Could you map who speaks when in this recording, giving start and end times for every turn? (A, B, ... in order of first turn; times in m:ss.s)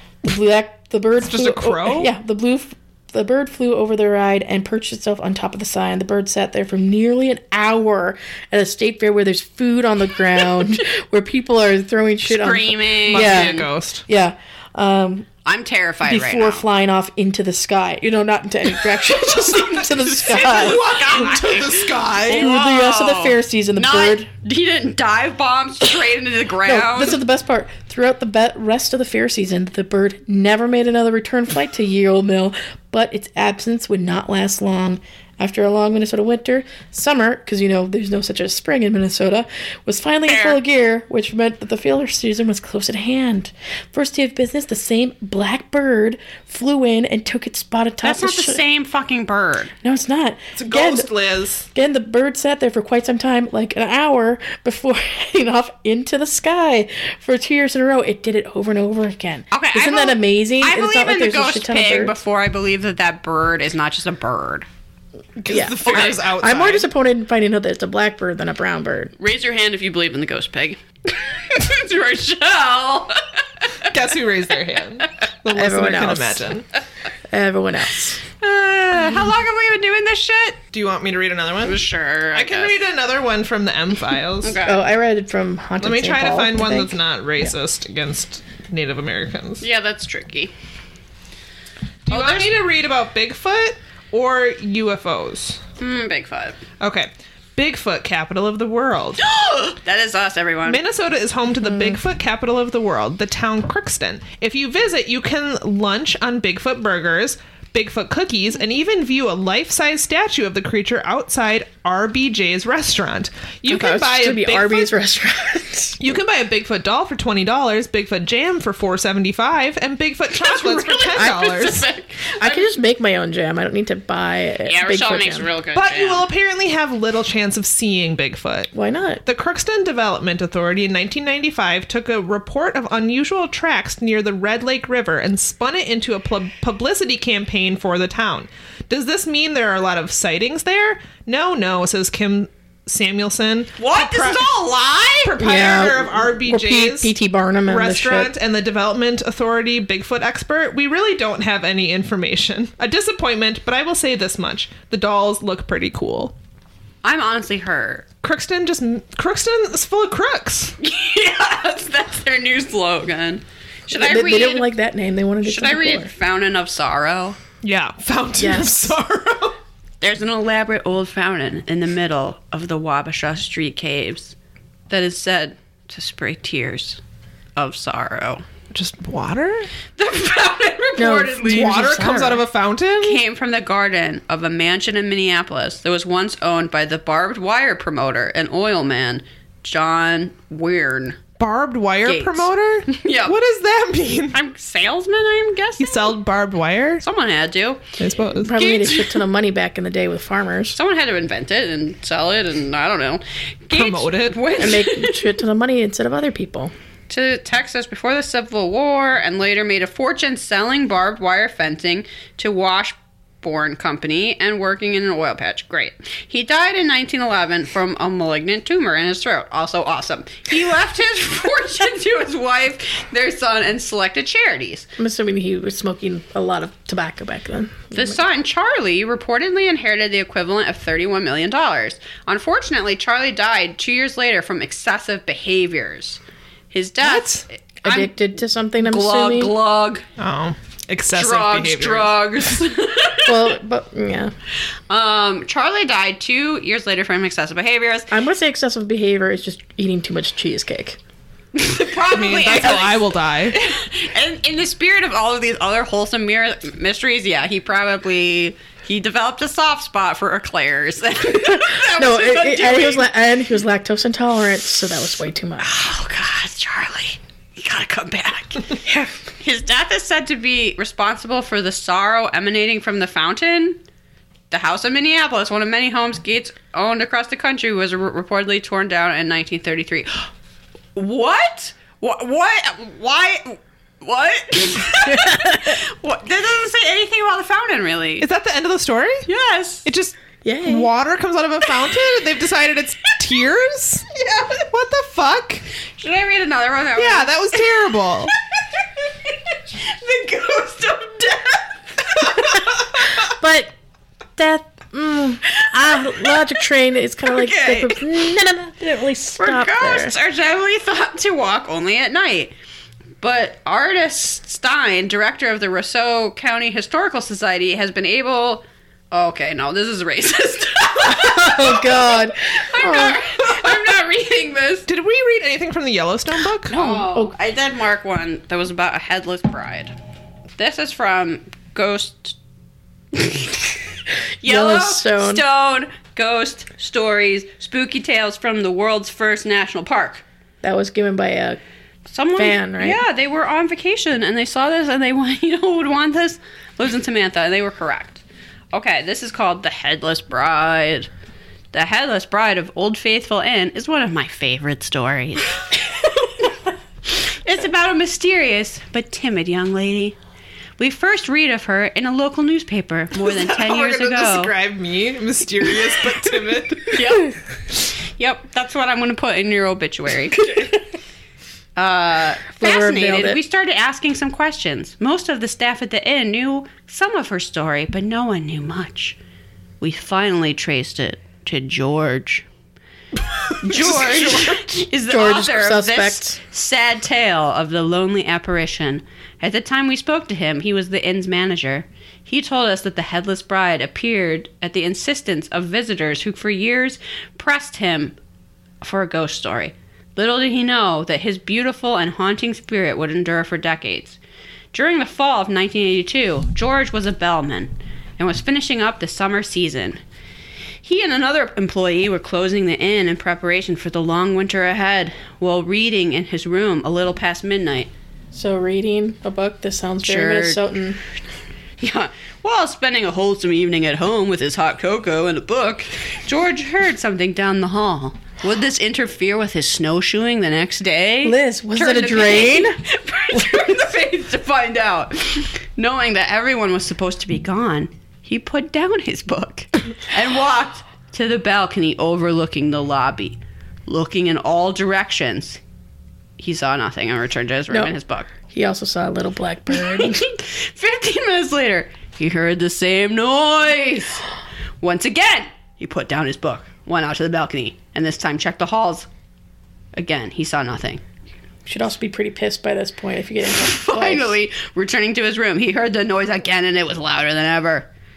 0:00.2-0:15.3 A
0:01.2-0:02.1 B
0:12.3-0:13.7 C
0:13.1-0:14.0 B
0:15.4-0:16.6 C
0:16.0-0:20.8 A
0:19.1-0:27.2 C
0:20.2-0:22.5 B
0:22.3-0:24.3 A
0:26.6-0:48.6 A
0:40.3-0:40.6 C
0:48.0-0:49.7 C
0:49.8-0:51.1 A
0:50.6-0:51.7 B
0:51.7-1:02.2 A
0:59.5-1:04.7 C
1:05.4-1:06.9 B
1:05.5-1:09.2 A
1:05.9-1:06.2 C
1:09.2-1:13.9 C
1:13.9-1:16.7 B
1:15.5-1:16.5 A
1:17.3-1:18.2 A
1:18.4-1:20.6 C
1:20.7-1:24.6 B
1:21.6-1:22.8 C
1:24.4-1:24.8 C
1:24.6-1:27.5 A
1:25.8-1:29.6 B
1:29.6-1:30.5 C
1:32.1-1:35.6 B
1:32.1-1:32.6 C
1:35.8-1:36.6 C
1:36.8-1:39.2 B
1:39.2-1:40.8 C
1:40.7-1:54.9 B
1:53.7-1:56.0 A
1:56.0-2:01.9 B
2:00.3-2:02.7 C
2:02.4-2:05.5 A
2:04.7-2:06.3 C
2:05.8-2:08.7 B
2:08.7-2:09.2 A
2:09.2-2:24.6 B
2:23.8-2:25.4 C
2:25.2-2:27.1 B
2:25.4-2:28.3 A
2:27.7-2:36.3 B
2:37.0-2:38.0 C
2:38.2-2:40.8 B
2:40.8-2:44.7 C
2:43.9-2:46.1 A
2:45.4-2:47.4 C
2:47.6-2:49.6 B
2:48.4-2:49.0 A
2:50.0-2:54.4 C
2:54.9-2:57.0 C
2:57.6-2:58.4 C
2:58.7-2:59.7 B
3:00.0-3:01.8 C
3:01.0-3:02.4 A
3:01.4-3:03.2 B
3:03.0-3:11.2 C
3:11.4-3:14.4 B
3:12.0-3:13.4 C
3:14.3-3:16.2 C
3:15.8-3:17.0 B
3:17.0-3:17.8 C
3:18.0-3:18.6 B
3:18.4-3:20.8 A
3:18.5-3:19.2 C
3:20.8-3:25.2 C
3:23.7-3:24.4 B
3:24.6-3:26.7 A
3:27.1-3:44.9 C
3:45.0-3:48.2 A
3:47.9-3:56.2 C
3:56.7-3:58.1 C
3:57.0-3:57.4 B
3:57.8-3:59.5 A
3:58.8-4:00.0 C
4:00.2-4:02.5 B
4:01.1-4:03.5 C
4:03.3-4:04.3 A
4:04.9-4:08.1 C
4:08.1-4:11.0 A
4:11.6-4:23.1 C
4:12.1-4:13.6 B
4:21.5-4:25.7 A
4:25.6-4:28.8 C
4:28.9-4:29.1 A
4:29.4-4:33.8 C
4:34.5-4:40.3 C
4:41.0-4:48.3 C
4:45.1-4:45.8 A
4:48.2-4:49.3 B
4:49.3-4:49.9 C
4:49.8-4:55.6 B
4:50.4-4:50.9 A
4:54.1-4:54.6 C
4:56.0-4:57.8 C
4:57.0-4:58.3 B
4:58.5-5:02.8 C
5:03.2-5:03.7 A
5:04.4-5:10.1 A
5:05.6-5:06.4 C
5:07.3-5:08.0 C
5:09.4-5:12.5 C
5:13.2-5:24.9 C
5:21.0-5:23.2 A
5:24.9-5:26.8 B
5:26.7-5:30.0 C
5:26.8-5:27.3 A
5:30.6-5:32.4 C
5:33.1-5:33.8 C
5:34.4-5:40.2 C
5:34.4-5:35.4 A
5:40.6-5:41.6 A
5:42.1-5:48.2 C
5:42.4-5:43.0 A
5:48.7-5:51.1 C
5:51.7-5:55.8 C
5:57.1-6:00.2 C
6:00.8-6:04.5 C
6:03.2-6:07.0 B
6:06.9-6:10.5 C
6:11.8-6:19.2 C
6:12.6-6:13.4 A
6:19.8-6:22.5 C
6:23.6-6:38.2 C
6:25.1-6:26.4 A
6:38.8-6:44.2 C
6:44.7-6:50.0 C
6:50.8-6:57.9 C
6:58.3-7:01.0 A
7:00.0-7:00.6 C
7:01.8-7:25.6 C
7:11.2-7:12.8 A
7:26.4-7:28.3 C
7:28.5-7:30.3 A
7:29.9-7:34.2 C
7:34.8-7:39.1 C
7:40.0-7:41.0 C
7:41.6-7:44.4 A
7:43.5-7:47.9 C